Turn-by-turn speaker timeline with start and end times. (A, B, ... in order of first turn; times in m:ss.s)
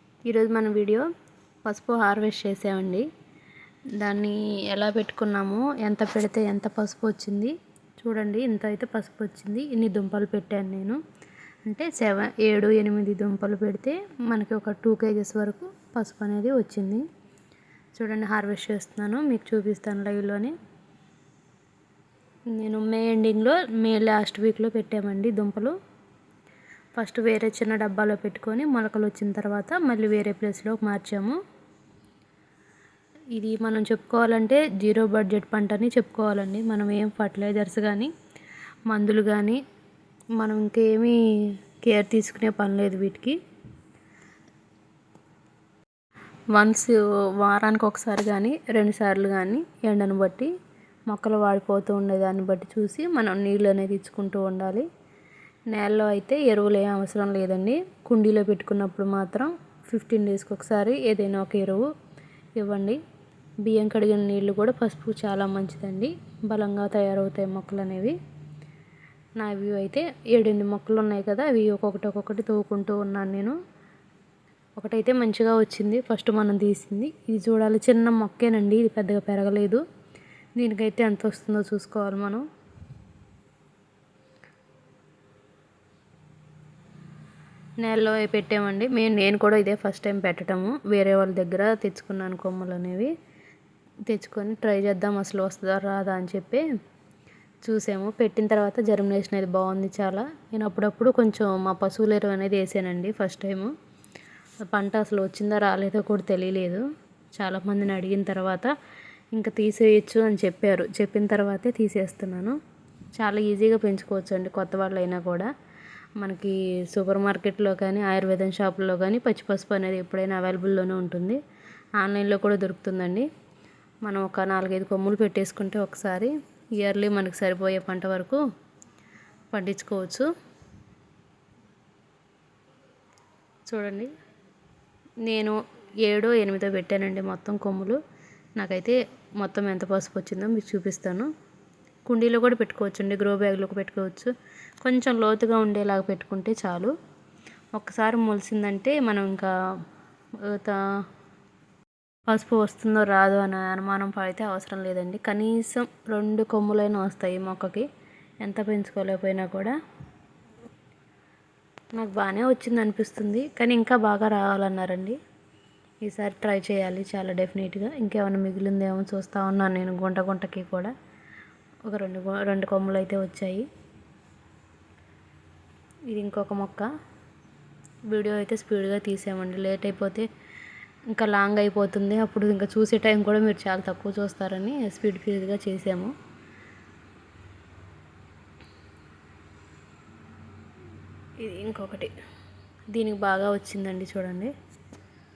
0:00.3-0:01.0 A
0:01.6-0:03.1 A
0:04.0-0:11.0 A
0:11.7-0:17.0 A
0:18.0-0:20.6 A
0:22.5-0:25.8 A
0:27.0-0:31.4 A
0:33.3-0:38.1 A
0:38.9-0:39.6 A
0:40.4-0:41.2 A
0:41.8-0:43.4 A
0:46.5-0:50.5 A
0:51.1-0:54.9 A
0:55.7-1:01.9 A
1:02.6-1:03.0 A
1:03.6-1:08.2 A
1:09.4-1:13.6 A
1:14.8-1:19.8 A
1:20.6-1:22.4 A
1:27.8-1:33.1 A
1:34.1-1:36.6 A
1:37.6-1:43.7 A
1:44.7-1:46.8 A
1:47.4-1:48.7 A
1:49.3-1:52.6 A
1:53.2-1:55.5 A
1:56.2-2:01.4 A
2:02.0-2:03.3 A
2:04.0-2:08.4 A
2:09.5-2:10.3 A
2:13.7-2:14.1 A
2:15.3-2:18.0 A
2:18.6-2:21.3 A
2:22.1-2:26.9 A
2:27.8-2:29.5 A
2:30.4-2:30.8 A
2:32.3-2:37.9 A
2:38.4-2:39.8 A
2:42.0-2:45.2 A
2:46.0-2:50.9 A
2:51.9-2:53.7 A
2:56.1-2:56.9 A
2:58.1-3:00.3 A
3:01.1-3:06.1 A
3:11.4-3:12.1 A
3:12.9-3:14.5 A